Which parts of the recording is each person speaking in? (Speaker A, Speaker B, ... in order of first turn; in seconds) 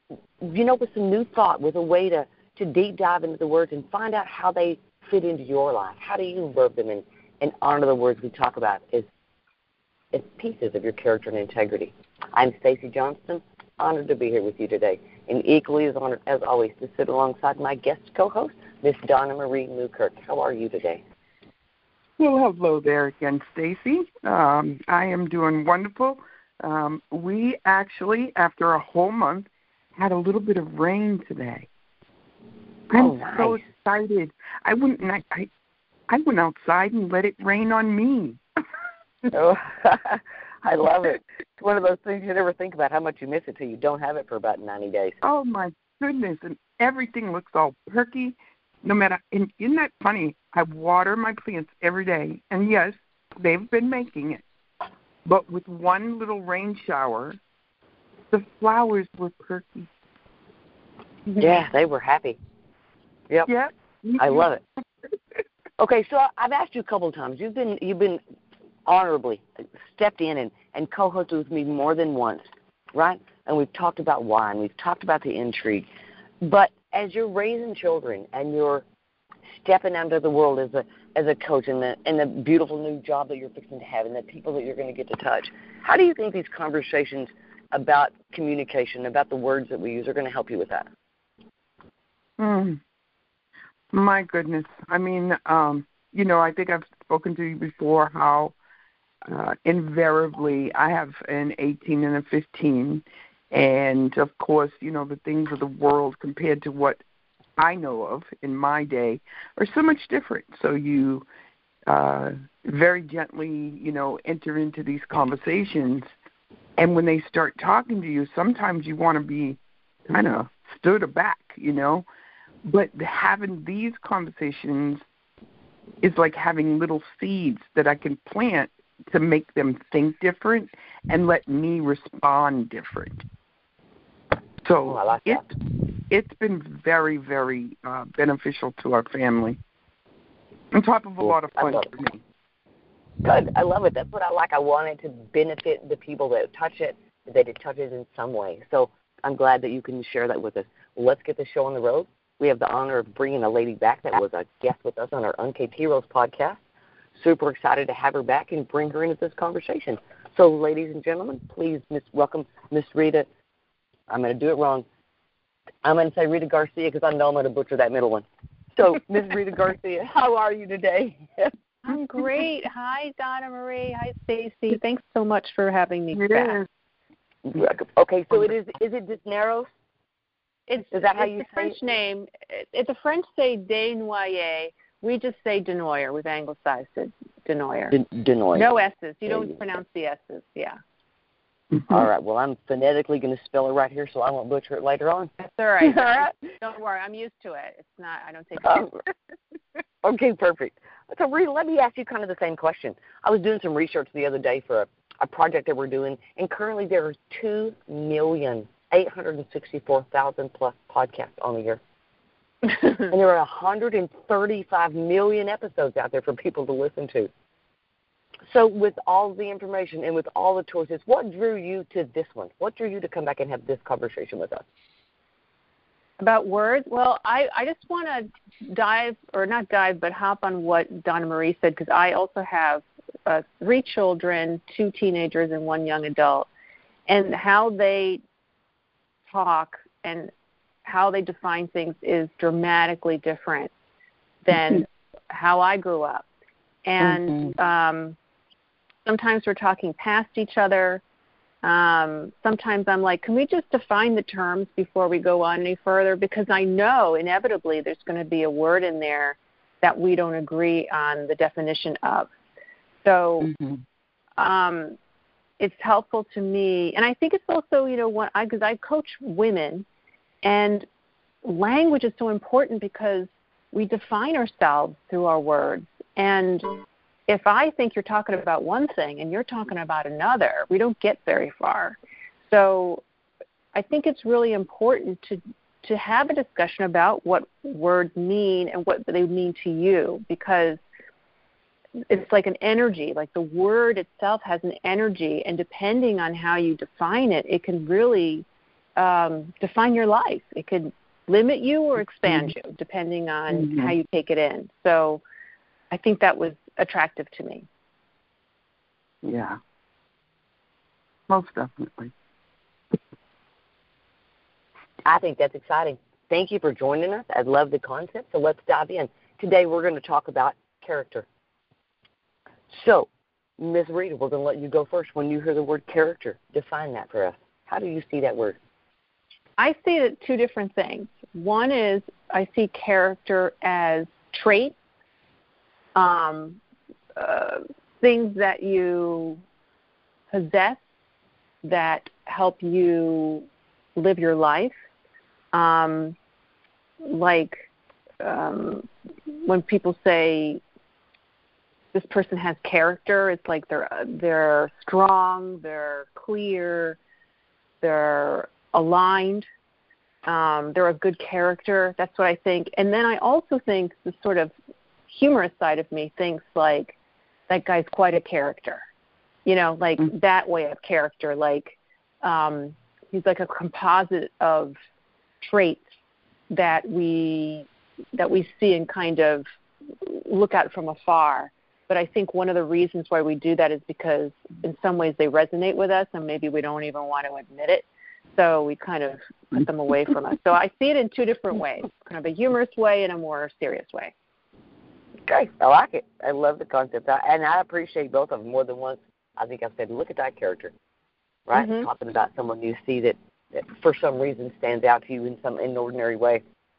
Speaker A: 0.4-9.1, 10.1-21.0, 33.0-33.6, 39.3-45.2, 61.4-62.4, 64.2-64.6, 65.8-68.2, 68.9-75.9, 76.4-78.8, 79.5-90.9, 134.9-135.4, 141.6-141.8, 143.2-156.6, 157.2-163.3, 164.1-164.9, 165.8-171.5, 177.5-179.7, 180.9-181.8, 187.9-188.7, 189.3-189.6, 191.9-196.3, 198.6-198.9, 200.0-211.8, 212.8-217.3, 218.5-224.6, 315.1-321.3, 322.7-323.1, 323.6-328.6, 395.3-400.7, 401.5-406.4
Speaker B: 22.2-31.7, 32.9-35.5, 36.1-38.4, 45.2-54.4, 55.2-57.4, 58.3-59.9, 63.5-64.5, 92.4-92.8, 93.9-98.6, 99.2-107.0, 107.6-111.3, 111.9-116.1, 116.8-119.6, 120.1-122.0, 122.7-125.0, 126.0-133.2, 134.6-135.6, 136.1-139.6, 140.7-142.2, 176.2-176.6, 303.6-303.9, 309.2-309.6, 311.3-312.1
Speaker C: 171.8-176.6, 180.7-188.0, 188.5-190.8, 195.4-198.9, 226.2-236.5, 237.1-238.2, 239.3-240.3, 240.8-243.7, 244.4-246.3, 246.8-248.2, 249.1-251.0, 251.6-262.3, 263.1-263.5, 264.4-265.0, 265.6-269.9, 270.4-270.9, 271.4-276.7, 277.3-282.0, 282.5-283.0, 283.7-290.8, 292.1-298.4, 299.0-305.2, 305.9-307.7, 329.6-334.8, 336.0-336.6, 337.2-339.4, 340.3-340.8, 341.6-343.5, 344.0-344.8, 345.5-346.2, 347.0-347.6, 348.2-350.6, 351.9-357.0, 357.8-359.5, 360.3-364.5, 365.1-366.9, 367.5-368.8, 369.5-374.8, 375.4-375.8, 376.5-379.5, 380.0-394.1, 401.5-401.9